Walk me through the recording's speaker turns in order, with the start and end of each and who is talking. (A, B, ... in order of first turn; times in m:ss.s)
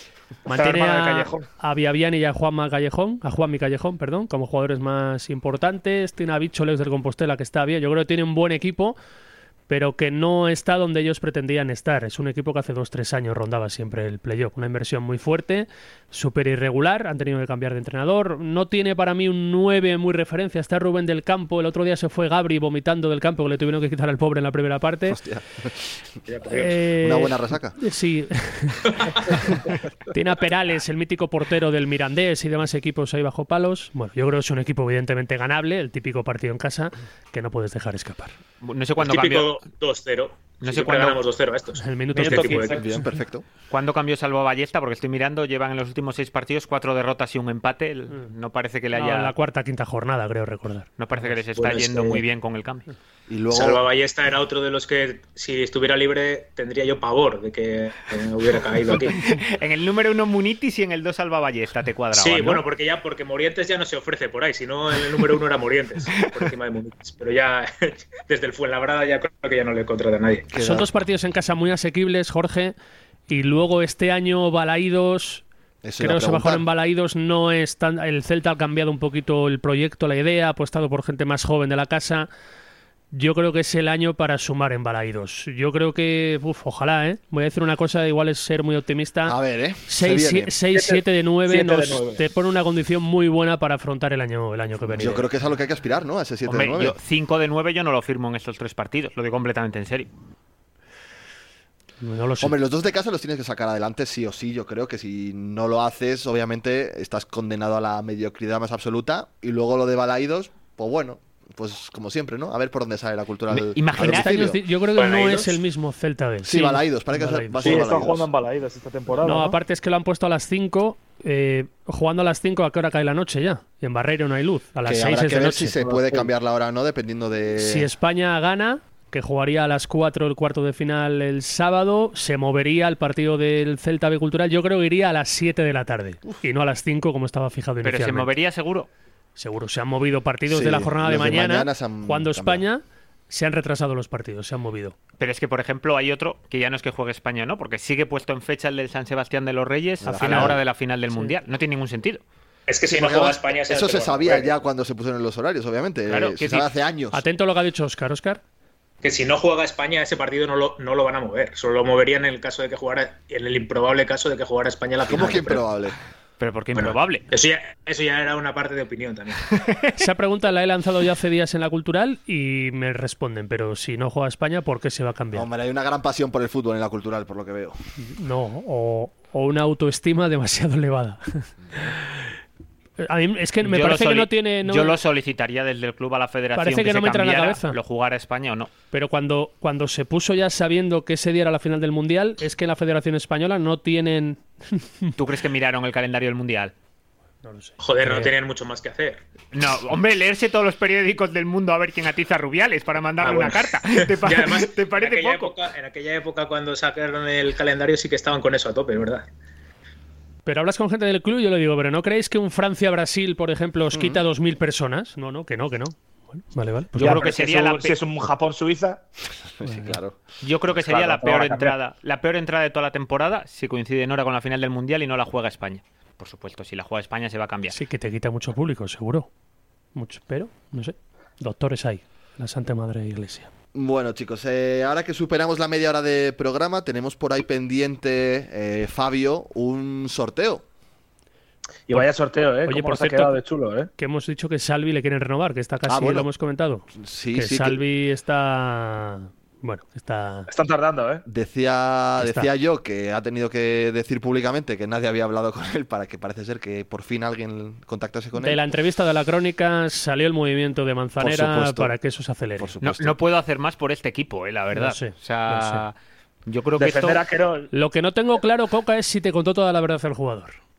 0:00.4-0:09.0 A
0:00.5-0:01.5 B
0:09.7-0:25.2 A
0:25.1-0:25.7 C
0:26.3-0:26.7 D
0:26.5-0:29.6 A
0:27.0-0:27.8 C
0:30.1-0:38.3 A
0:38.6-0:39.6 E
0:39.0-0:42.8 D
0:40.6-0:41.2 E
0:41.8-0:42.9 A
0:42.1-0:42.9 B
0:42.8-0:43.4 C
0:43.7-0:49.3 E
0:48.9-0:50.9 A
0:51.0-0:52.9 E
0:51.6-0:52.2 D
0:53.3-0:53.8 C
0:53.5-0:59.2 D
0:59.1-1:02.6 E
1:02.1-1:10.5 D
1:10.5-1:10.9 C
1:10.6-1:12.7 A
1:13.3-1:15.4 A
1:15.8-1:16.6 C
1:16.0-1:22.3 A
1:23.1-1:35.2 A
1:29.2-1:30.5 C
1:30.7-1:32.2 B
1:34.9-1:37.0 C
1:36.4-1:40.1 E
1:42.0-1:42.6 A
1:42.4-1:54.6 C
1:53.5-1:54.4 E
1:54.0-1:57.9 A
1:55.0-1:55.6 D
1:56.4-1:58.3 C
1:57.6-1:59.6 B
1:59.2-2:05.8 A
2:04.8-2:07.9 C
2:05.8-2:06.3 B
2:07.6-2:18.3 A
2:17.8-2:18.9 E
2:19.4-2:24.9 A
2:20.5-2:22.6 C
2:25.2-2:32.2 E
2:30.0-2:30.6 C
2:30.2-2:30.6 A
2:32.7-2:34.5 D
2:32.9-2:37.2 C
2:36.1-2:36.7 E
2:37.1-2:38.4 A
2:39.0-2:45.7 D
2:45.0-2:46.0 C
2:46.4-2:47.2 E
2:46.7-2:49.5 D
2:49.6-2:49.8 E
2:50.0-2:55.5 A
2:55.3-2:57.8 C
2:58.0-3:02.3 A
3:03.0-3:05.0 A
3:03.6-3:08.7 E
3:06.6-3:07.8 A
3:08.9-3:15.2 A
3:15.2-3:16.7 E
3:17.4-3:18.3 A
3:17.8-3:19.2 D
3:19.5-3:25.6 E
3:23.2-3:29.3 D
3:30.4-3:37.2 A
3:33.9-3:34.2 C
3:36.9-3:39.0 B
3:37.0-3:38.0 E
3:39.6-3:40.2 C
3:39.6-3:40.0 A
3:40.4-3:47.8 E
3:40.8-3:41.7 B
3:47.7-3:49.3 A
3:49.9-3:53.5 A
3:53.7-4:00.6 C
4:01.9-4:03.9 B
4:02.6-4:03.4 A
4:04.0-4:10.5 A
4:05.9-4:06.3 C
4:06.9-4:07.8 C
4:10.5-4:11.2 B
4:11.2-4:18.6 C
4:12.2-4:12.5 A
4:18.4-4:22.7 A
4:21.2-4:21.9 C
4:22.6-4:23.2 C
4:22.8-4:25.9 E
4:24.7-4:25.8 A
4:26.5-4:27.2 E
4:26.8-4:27.7 B
4:27.7-4:30.6 A